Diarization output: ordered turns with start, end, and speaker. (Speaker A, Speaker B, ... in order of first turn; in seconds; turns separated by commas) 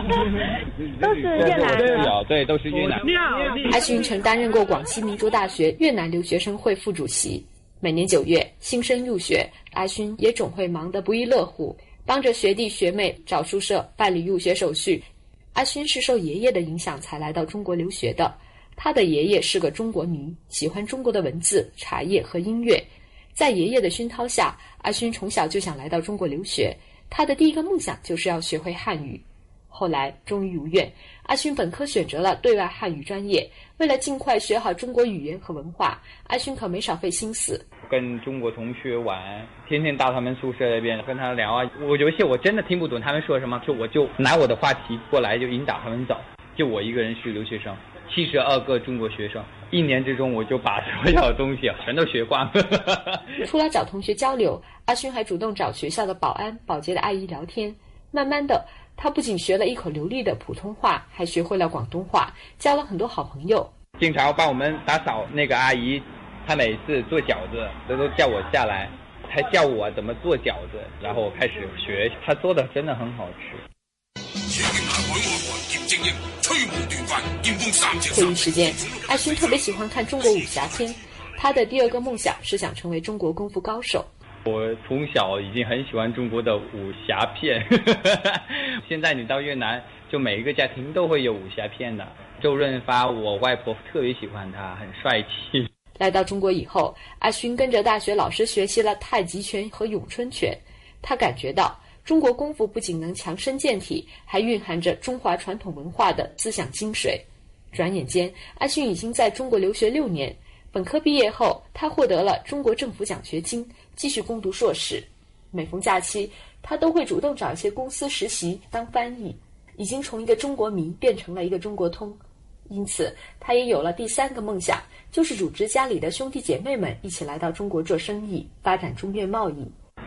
Speaker A: 1.0-3.5, Speaker B: 3.6-37.7, Speaker A: 37.8-53.3, Speaker B: 53.4-63.7, Speaker A: 64.0-73.6, Speaker B: 78.0-84.1, Speaker A: 84.5-95.7, Speaker B: 96.0-129.7